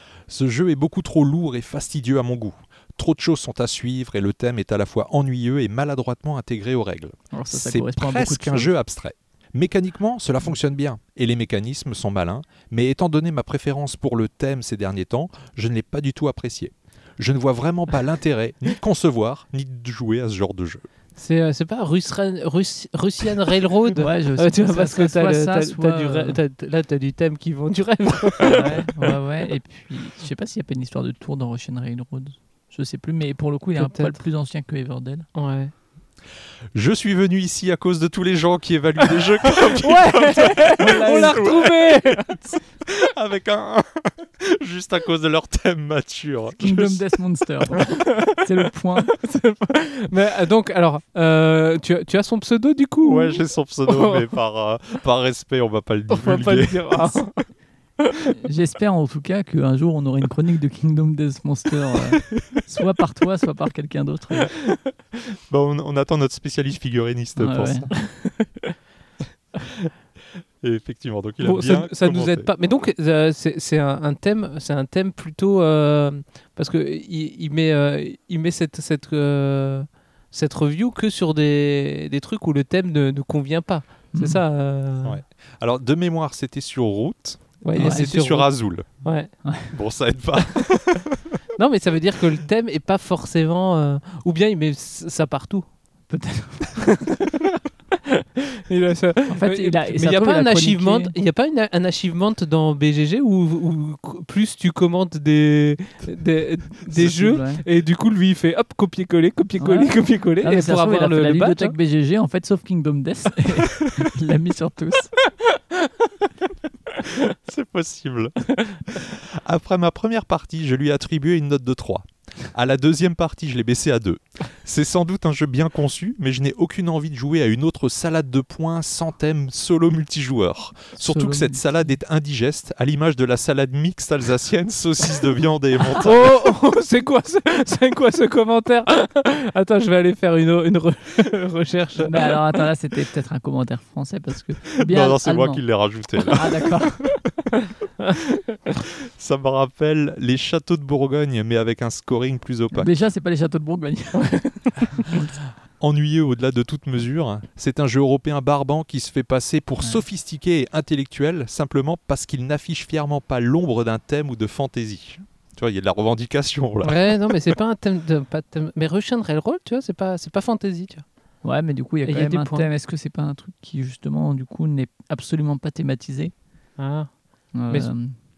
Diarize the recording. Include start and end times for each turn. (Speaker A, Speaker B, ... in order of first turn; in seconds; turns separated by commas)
Speaker A: 0.3-20.9, Speaker B: 7.3-8.7, Speaker C: 21.2-29.2, Speaker B: 24.0-26.4, Speaker B: 28.5-35.3, Speaker C: 33.8-34.2, Speaker C: 35.4-35.7, Speaker A: 36.7-47.0, Speaker C: 39.7-42.4, Speaker B: 40.7-41.5, Speaker B: 46.6-49.2, Speaker C: 47.8-48.3, Speaker C: 49.0-54.3, Speaker A: 53.0-57.0, Speaker C: 56.1-57.5, Speaker C: 58.0-58.3, Speaker B: 58.4-64.5, Speaker A: 65.5-68.0, Speaker B: 67.4-67.9, Speaker C: 67.9-68.7, Speaker A: 69.6-69.9, Speaker A: 70.6-72.5, Speaker C: 71.4-85.2, Speaker B: 84.1-84.4, Speaker A: 85.0-89.0, Speaker C: 87.6-88.5, Speaker B: 87.8-88.1, Speaker C: 89.0-89.3, Speaker B: 89.4-89.7, Speaker A: 89.7-91.4, Speaker C: 91.6-95.7, Speaker B: 96.1-96.8, Speaker C: 96.8-97.5, Speaker C: 98.1-111.8, Speaker B: 99.3-101.1, Speaker B: 106.9-107.6, Speaker B: 109.6-115.1, Speaker A: 117.5-136.4, Speaker B: 131.0-131.8, Speaker C: 136.0-142.4, Speaker B: 142.0-145.6, Speaker A: 144.7-146.7, Speaker B: 146.3-147.0, Speaker A: 149.0-152.9, Speaker B: 152.8-155.4, Speaker A: 155.8-167.3, Speaker C: 166.8-171.0, Speaker B: 171.4-176.3, Speaker C: 172.1-172.7, Speaker C: 176.8-177.1, Speaker B: 177.6-178.2